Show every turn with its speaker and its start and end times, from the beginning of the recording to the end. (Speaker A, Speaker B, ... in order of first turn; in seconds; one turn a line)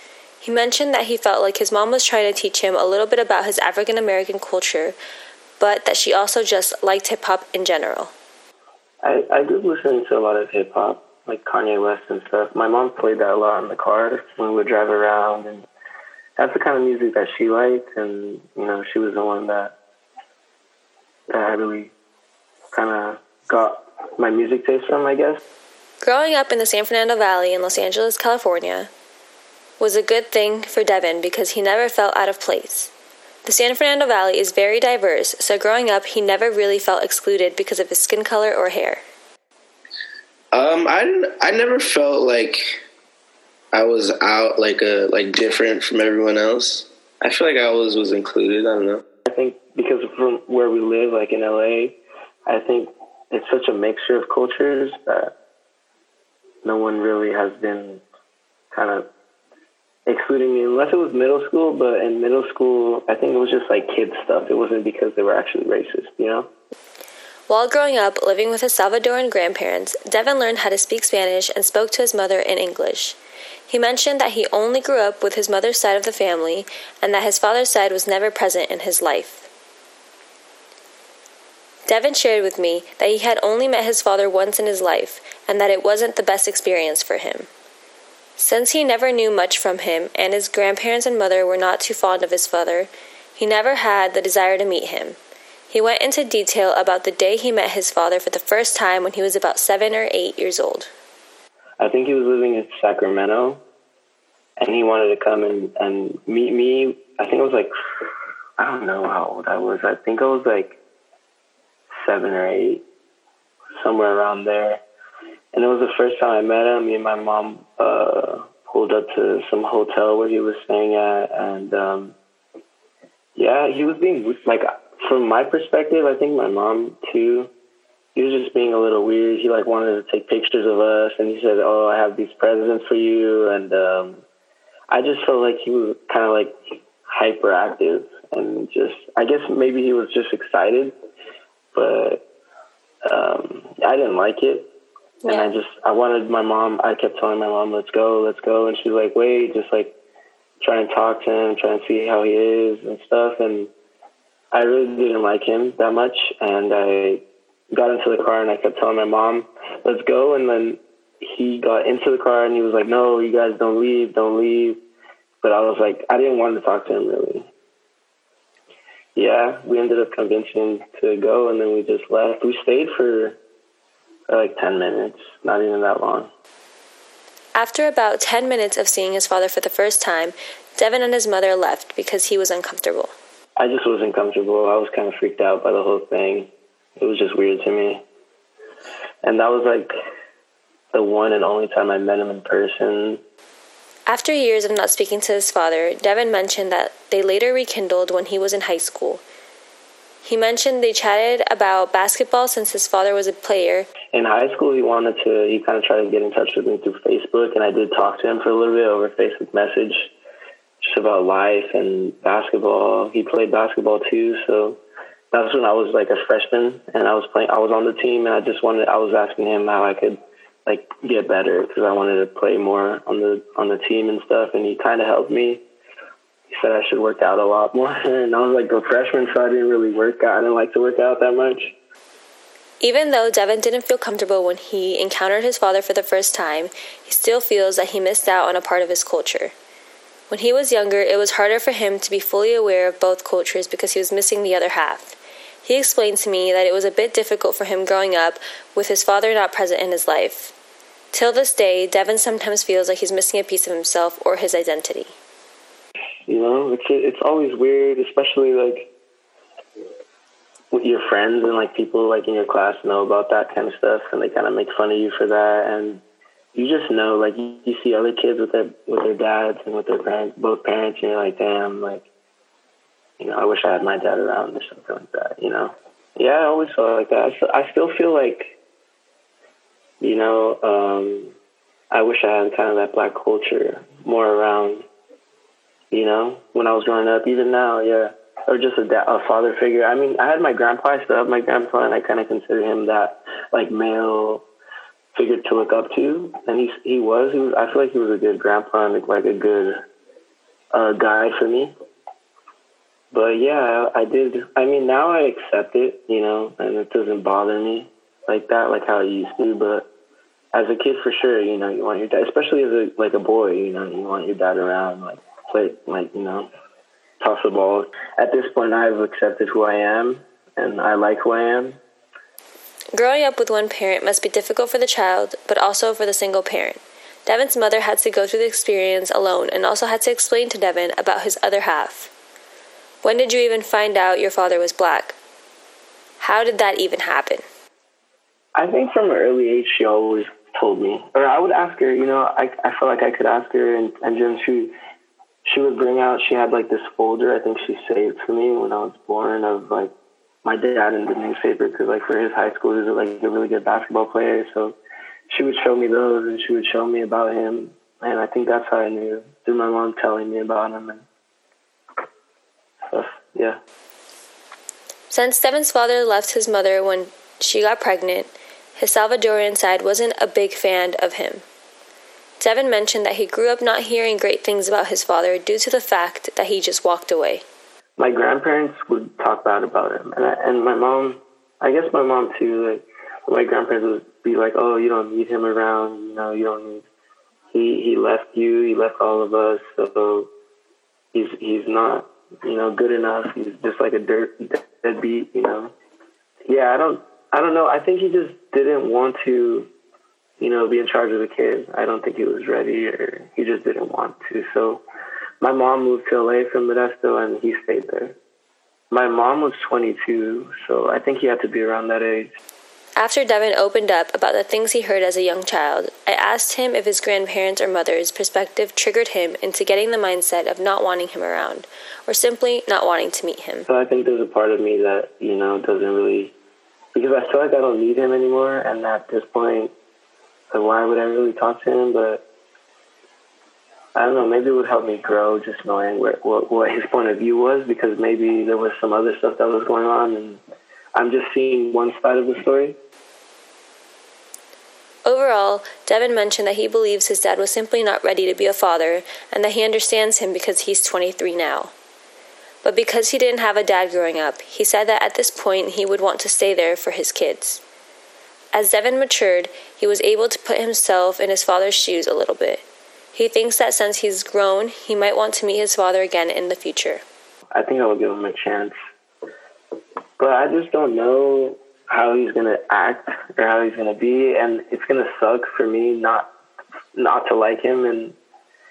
Speaker A: 0.4-5.0
Speaker A: 5.6-8.1
Speaker B: 9.0-15.7
Speaker B: 16.4-19.7
Speaker B: 21.3-21.9
Speaker B: 22.7-25.4
Speaker A: 26.0-28.9
Speaker A: 29.8-32.9
Speaker A: 33.5-39.0
Speaker C: 40.5-42.8
Speaker C: 43.7-49.0
Speaker B: 49.3-55.3
Speaker B: 56.6-58.0
Speaker B: 58.7-59.1
Speaker B: 60.1-66.5
Speaker A: 67.5-73.2
Speaker A: 73.7-79.5
Speaker A: 81.9-87.5
Speaker A: 88.4-95.2
Speaker A: 95.7-100.9
Speaker B: 101.8-103.6
Speaker B: 104.6-107.7
Speaker B: 108.6-110.8
Speaker B: 112.0-112.8
Speaker B: 113.8-114.8
Speaker B: 115.5-122.2
Speaker B: 123.4-127.5
Speaker B: 128.2-134.2
Speaker B: 134.9-140.9
Speaker B: 141.7-142.2
Speaker B: 143.1-144.7
Speaker A: 145.2-145.5
Speaker B: 145.2-149.9
Speaker B: 150.6-153.7
Speaker B: 154.5-164.8
Speaker B: 165.4-167.5
Speaker B: 169.2-173.4
Speaker B: 174.3-176.3
Speaker A: 177.6-183.1
Speaker B: 183.6-188.0
Speaker B: 189.2-189.9
Speaker B: 190.9-193.2
Speaker A: 194.1-199.2
Speaker A: 200.2-203.9
Speaker B: 204.1-210.1
Speaker B: 210.8-214.8
Speaker B: 215.3-225.6
Speaker B: 226.5-231.8
Speaker A: 232.8-239.5
Speaker A: 240.3-250.5
Speaker A: 251.1-255.1
Speaker B: 256.3-258.9
Speaker B: 260.7-272.1
Speaker B: 273.2-278.6
Speaker B: 280.0-281.4
Speaker B: 281.9-284.9
Speaker B: 285.9-294.4
Speaker B: 295.1-299.8
Speaker B: 300.7-301.7
Speaker B: 303.1-309.9
Speaker B: 310.5-316.5
Speaker B: 317.2-321.8
Speaker A: 322.9-332.1
Speaker A: 333.0-335.2
Speaker A: 336.2-337.4
Speaker B: 338.6-344.7
Speaker B: 345.4-354.8
Speaker B: 355.3-361.1
Speaker B: 362.9-363.6
Speaker A: 365.1-371.4
Speaker A: 372.4-377.4
Speaker B: 378.0-386.9
Speaker B: 387.5-390.3
Speaker B: 391.1-395.7
Speaker B: 396.5-399.7
Speaker B: 400.4-404.8
Speaker B: 405.4-408.2
Speaker B: 408.9-412.3
Speaker A: 413.0-423.7
Speaker B: 423.7-426.4
Speaker B: 426.9-429.7
Speaker B: 430.5-432.2
Speaker B: 433.9-440.4
Speaker B: 440.9-442.8
Speaker A: 445.1-451.7
Speaker A: 452.6-457.6
Speaker A: 458.5-462.6
Speaker A: 463.1-467.0
Speaker B: 467.5-468.8
Speaker B: 470.2-476.3
Speaker B: 476.9-478.2